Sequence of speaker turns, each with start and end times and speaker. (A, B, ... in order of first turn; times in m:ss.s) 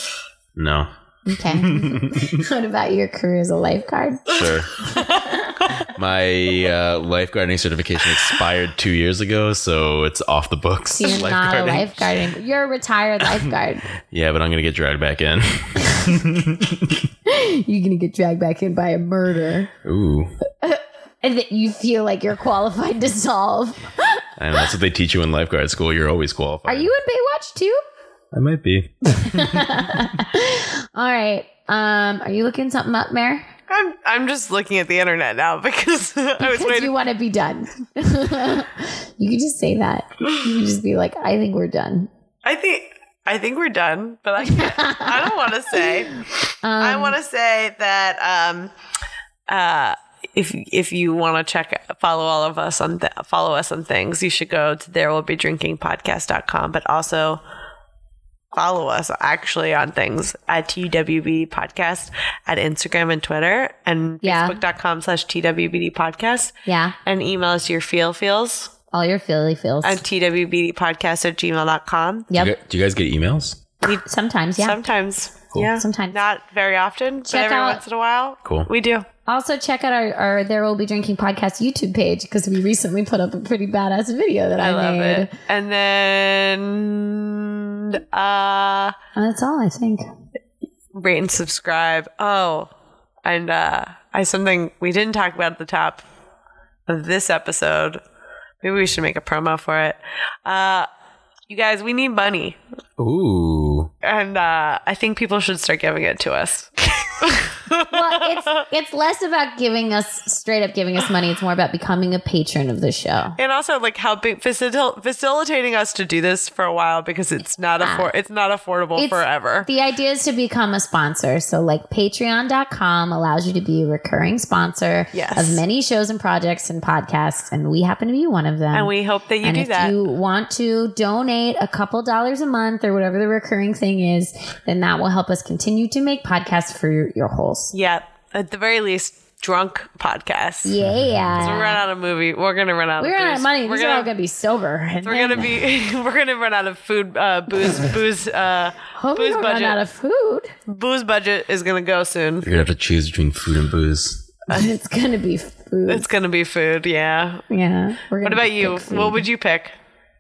0:00.6-0:02.4 A
0:01.3-0:04.3 B
0:04.3-0:04.7 A
0:04.9-0:05.7 C
0:05.0-0:05.5 B
0:05.9-0:12.2 A
0:10.9-0:13.9 B
0:13.2-0:13.5 A
0:14.1-0:17.0 A
0:17.3-0:19.7 B
0:19.8-0:20.3 A
0:20.6-0:24.2 B
0:24.4-0:26.9 A
0:26.7-0:27.8 B
0:28.3-0:30.2 A
0:29.1-0:33.5 B
0:33.7-0:36.9 C
0:36.4-0:42.1 B
0:42.4-0:46.1 C
0:44.4-0:45.9 B
0:46.6-0:47.2 B
0:46.8-0:48.7 C
0:49.5-0:57.4 C
0:58.5-1:08.7 C
1:04.2-1:04.6 B
1:06.7-1:07.0 B
1:08.9-1:10.0 B
1:09.8-1:12.3 C
1:12.3-1:12.6 B
1:12.3-1:13.6 A
1:14.0-1:14.8 B
1:14.6-1:19.1 C
1:15.8-1:16.2 B
1:17.3-1:17.8 B
1:19.3-1:25.3 B
1:24.6-1:29.0 C
1:29.2-1:30.0 B
1:30.9-1:32.7 C
1:33.2-1:36.0 C
1:36.9-1:38.0 C
1:38.6-1:40.9 C
1:41.5-1:42.6 C
1:43.0-1:43.9 A
1:44.0-1:48.4 C
1:47.9-1:53.4 B
1:53.4-1:59.7 C
1:57.8-1:58.1 B
1:59.0-2:17.7 B
2:05.1-2:05.6 C
2:08.7-2:10.0 C
2:17.7-2:20.7 C
2:20.6-2:21.8 B
2:20.9-2:21.3 A
2:21.4-2:24.1 C
2:23.0-2:25.5 B
2:25.0-2:29.8 C
2:29.0-2:30.5 B
2:30.7-2:32.5 C
2:32.4-2:34.3 A
2:34.5-2:36.1 B
2:35.9-2:37.4 C
2:37.5-2:39.2 B
2:38.2-2:39.7 C